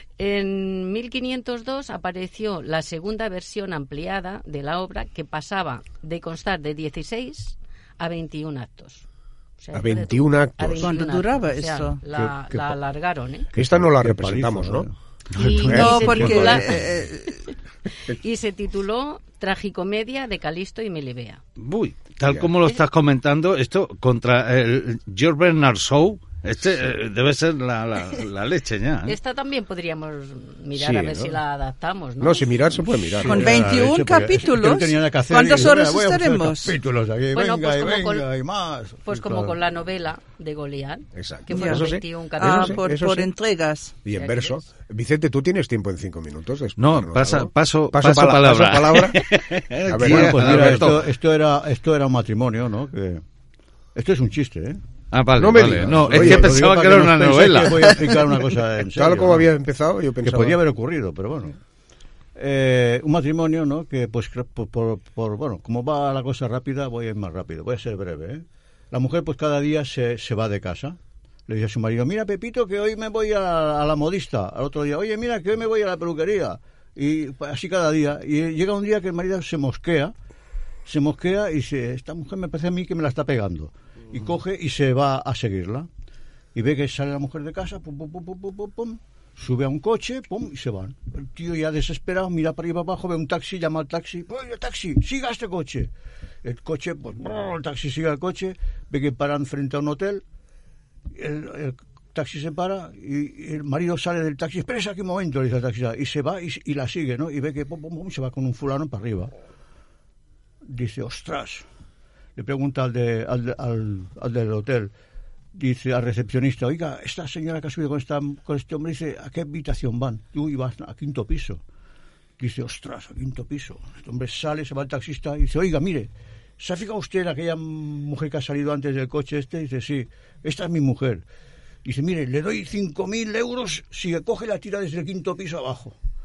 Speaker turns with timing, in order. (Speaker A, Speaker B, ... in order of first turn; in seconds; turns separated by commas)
Speaker A: 0.2-9.1, Speaker A: 9.6-13.5, Speaker B: 9.7-10.9, Speaker C: 10.8-12.0, Speaker D: 12.1-12.8, Speaker B: 13.6-14.9, Speaker D: 13.6-14.9, Speaker A: 15.3-16.9, Speaker E: 15.3-16.6, Speaker D: 15.7-16.4, Speaker C: 15.7-17.4, Speaker A: 18.1-21.4, Speaker E: 21.6-29.2, Speaker B: 22.2-22.5, Speaker A: 29.1-32.6, Speaker B: 30.8-31.4, Speaker B: 32.2-33.6, Speaker D: 33.1-39.6, Speaker C: 33.2-36.8, Speaker A: 37.3-38.3, Speaker A: 39.0-42.9, Speaker B: 41.1-43.3, Speaker C: 41.5-44.0, Speaker B: 44.0-49.2, Speaker A: 44.1-44.6, Speaker E: 46.8-51.1, Speaker B: 49.9-51.0, Speaker D: 49.9-53.2, Speaker D: 54.0-54.8, Speaker E: 55.1-58.0, Speaker B: 55.4-56.8, Speaker D: 55.5-59.5, Speaker B: 58.9-60.6, Speaker D: 60.2-61.6, Speaker D: 62.4-71.0, Speaker D: 71.5-80.1, Speaker D: 80.9-85.9, Speaker D: 86.5-95.9, Speaker D: 96.4-100.2, Speaker D: 101.1-109.3, Speaker D: 110.7-111.7, Speaker D: 112.4-114.9, Speaker D: 115.6-121.6, Speaker D: 122.4-131.2, Speaker D: 131.8-135.9